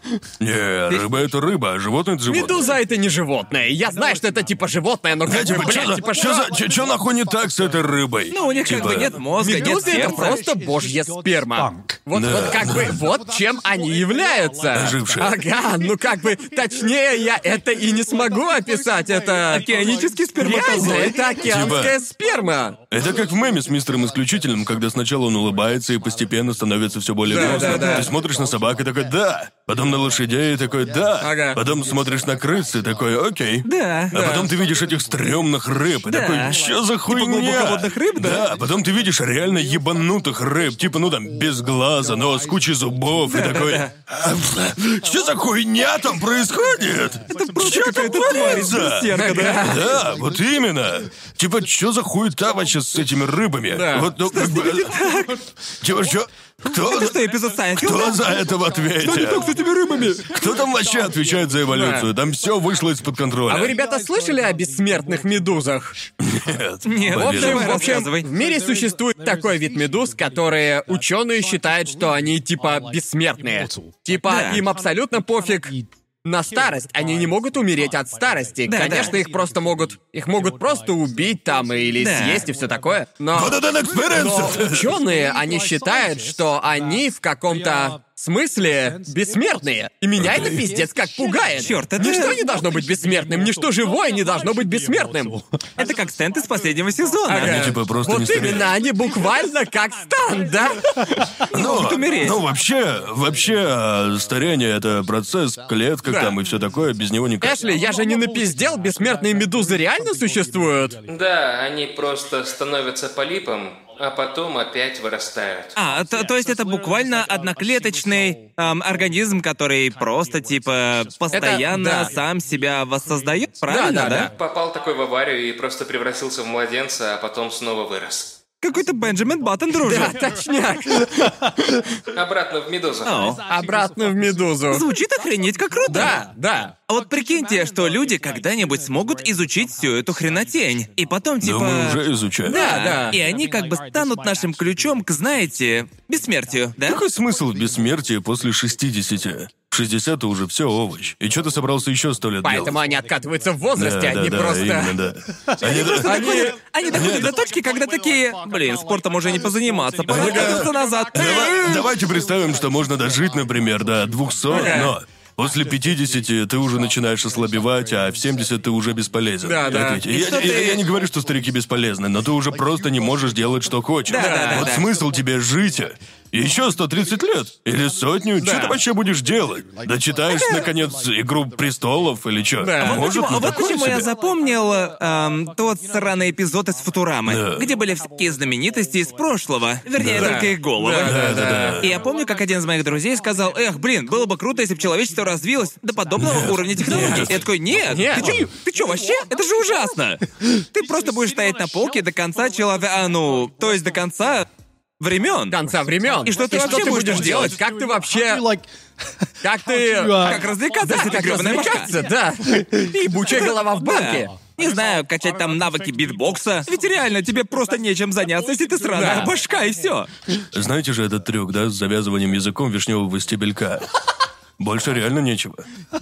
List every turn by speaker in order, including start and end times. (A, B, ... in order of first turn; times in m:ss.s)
0:00.4-0:02.8 A
0:02.3-0:06.5 B
0:05.2-0:09.2 A
0:08.3-0:10.4 C
0:09.4-0:19.8 B
0:12.1-0:13.0 A
0:14.7-0:15.4 A
0:19.5-0:21.2 C
0:20.4-0:22.8 B
0:21.4-0:22.0 A
0:22.9-0:55.0 A
0:27.3-0:28.1 B
0:27.4-0:28.0 C
0:31.2-0:31.6 B
0:33.6-0:34.1 C
0:34.1-0:34.5 B
0:36.1-0:38.4 C
0:43.3-0:43.9 C
0:47.3-0:49.8 C
0:47.7-0:49.9 B
0:53.7-0:54.1 B
0:54.3-0:55.4 C
0:55.8-0:57.2 A
0:56.7-0:58.2 C
0:57.7-0:59.5 A
0:59.0-1:00.2 C
1:00.3-1:03.8 A
1:01.7-1:02.1 B
1:03.5-1:06.0 B
1:06.2-1:07.9 A
1:06.8-1:08.3 C
1:07.1-1:35.4 B
1:14.2-1:14.6 C
1:18.7-1:19.2 C
1:22.0-1:22.4 C
1:23.3-1:25.0 A
1:30.2-1:30.6 A
1:31.6-1:32.4 C
1:35.8-1:37.7 C
1:37.3-1:41.0 B
1:37.4-1:38.7 A
1:41.5-1:42.4 C
1:41.5-1:47.6 A
1:46.0-1:46.4 B
1:47.4-1:51.0 B
1:51.0-1:55.7 D
1:55.8-2:04.3 C
2:01.3-2:02.1 B
2:03.7-2:04.3 B
2:04.3-2:08.4 D
2:08.6-2:10.2 C
2:09.8-2:11.3 B
2:12.1-2:13.3 D
2:13.0-2:13.4 C
2:13.5-2:14.9 B
2:14.7-2:16.2 C
2:15.9-2:16.7 B
2:16.9-2:27.0 C
2:21.4-2:22.7 A
2:22.4-2:23.2 B
2:26.8-2:32.8 A
2:32.4-2:35.0 B
2:33.8-2:37.3 A
2:35.6-2:41.9 C
2:35.9-2:36.6 B
2:40.1-3:04.1 A
2:40.1-2:40.5 B
2:44.5-2:45.0 B
2:44.5-2:44.8 C
2:49.4-2:50.0 B
2:50.1-2:50.8 C
2:54.1-2:54.9 C
2:54.1-2:54.7 B
2:58.4-2:58.8 B
3:00.3-3:00.6 C
3:02.6-3:03.5 B
3:02.8-3:24.5 C
3:07.2-3:07.7 A
3:10.0-3:12.0 A
3:10.1-3:11.8 B
3:16.2-3:17.4 A
3:17.8-3:18.4 B
3:25.0-3:25.6 C
3:25.5-3:28.5 B
3:26.2-3:27.6 C
3:29.4-3:34.3 B
3:30.2-3:32.0 C
3:33.3-3:40.1 C
3:38.9-3:39.3 B
3:40.5-3:43.9 A
3:44.6-3:45.6 A